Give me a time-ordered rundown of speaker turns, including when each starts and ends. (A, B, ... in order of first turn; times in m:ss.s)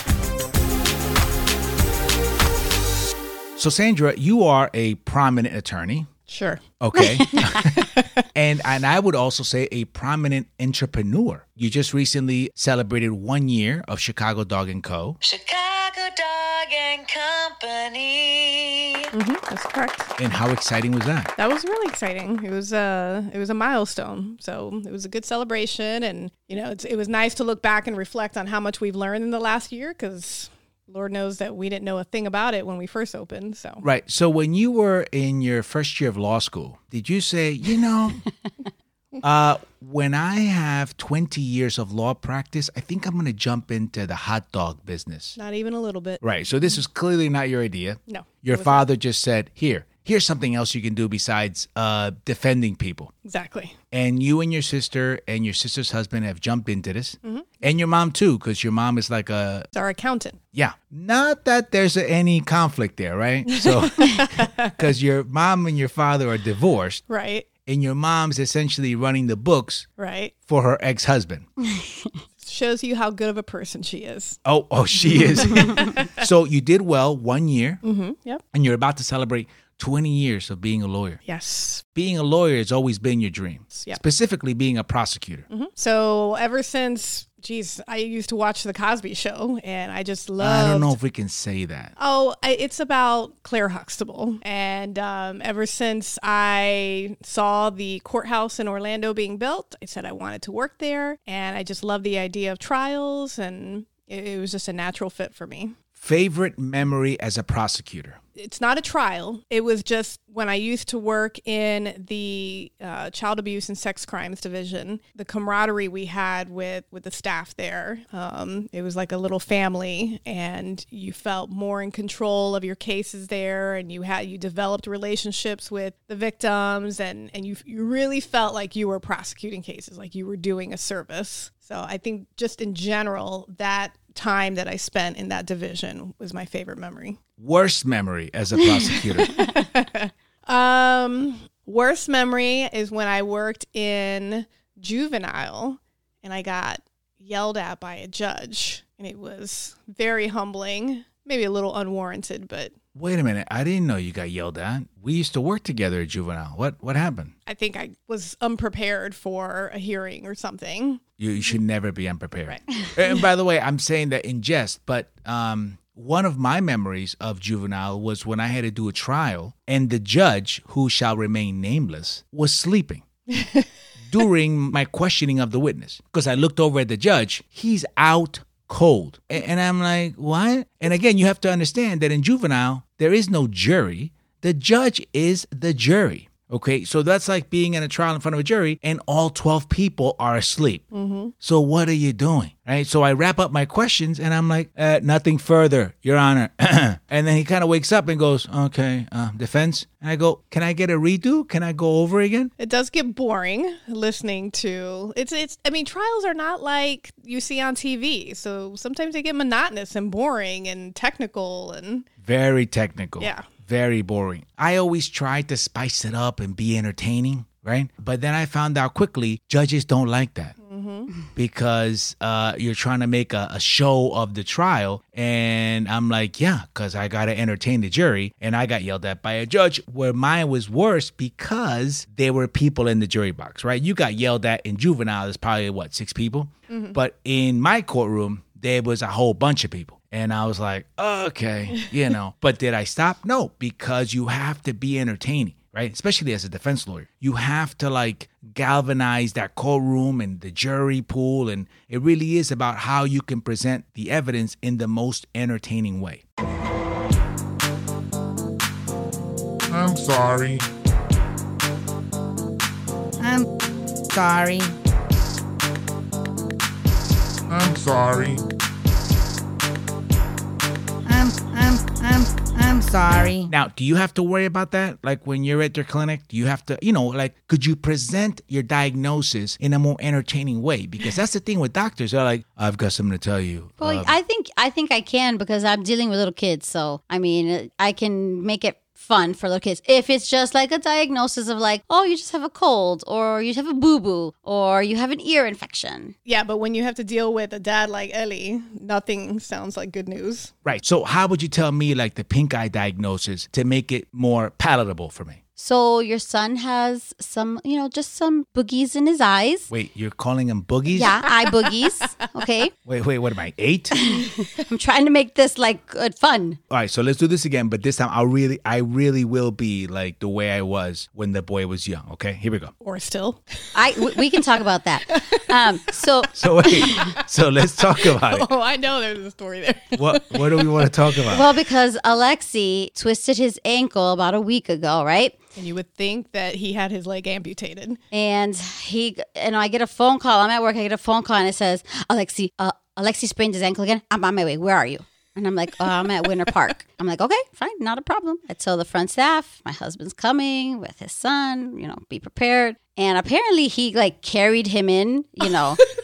0:03.6-0:06.1 A
0:06.3-0:06.6 B
0:06.8-0:15.2 A
0:06.9-0:07.6 C
0:07.4-0:08.2 B
0:15.2-0:19.0 D
0:19.1-0:20.1 B
0:20.2-0:21.3 A
0:21.4-0:33.8 B
0:33.8-0:38.3 A
0:39.2-0:45.4 A
0:45.4-0:46.2 B
0:46.2-0:53.1 A
0:48.1-0:48.8 B
0:53.2-0:53.7 B
0:53.9-0:59.7 A
0:57.2-0:57.6 B
0:59.7-1:00.4 B
1:00.5-1:07.0 A
1:03.5-1:04.7 B
1:07.1-1:07.5 B
1:07.6-1:09.9 A
1:10.0-1:10.3 B
1:10.5-1:11.5 A
1:12.4-1:14.4 B
1:14.4-1:17.8 A
1:15.1-1:16.1 B
1:17.8-1:18.4 B
1:18.5-1:21.2 A
1:21.2-1:21.8 B
1:22.0-1:25.4 A
1:23.7-1:24.0 B
1:25.5-1:30.9 B
1:30.4-1:31.9 A
1:32.0-1:45.7 B
1:46.0-1:48.2 A
1:48.4-2:17.2 B
2:17.4-2:19.4 A
2:18.8-2:32.7 B
2:32.9-2:37.3 A
2:37.5-2:41.0 B
2:41.2-2:53.0 A
2:53.3-2:53.6 B
2:54.1-3:10.8 A
3:10.9-3:11.3 B
3:11.4-3:22.5 A
3:22.6-3:32.0 B
3:32.2-3:40.5 A
3:33.2-3:33.4 B
3:40.6-3:41.1 B
3:41.3-4:16.2 A
3:56.7-3:57.0 B
4:19.7-4:20.7 E
4:23.2-4:23.5 F
4:24.1-4:24.7 F
4:27.5-4:28.4 E
4:31.0-4:33.5 F
4:33.5-4:44.2 A
4:43.8-4:56.1 C
4:56.2-5:00.5 B
5:00.6-5:05.4 A
5:05.6-5:09.7 C
5:09.7-5:11.1 A
5:10.9-5:12.7 C
5:12.8-5:14.0 A
5:13.9-5:16.6 C
5:16.7-5:22.7 A
5:22.8-5:23.4 B
5:23.7-5:27.0 C
5:24.0-5:24.4 B
5:25.1-5:26.0 B
5:26.3-5:28.5 A
5:26.6-5:27.2 B
5:27.8-5:31.4 B
5:29.9-5:31.4 A
5:31.3-5:35.3 C
5:35.6-5:38.0 B
5:38.1-5:55.8 C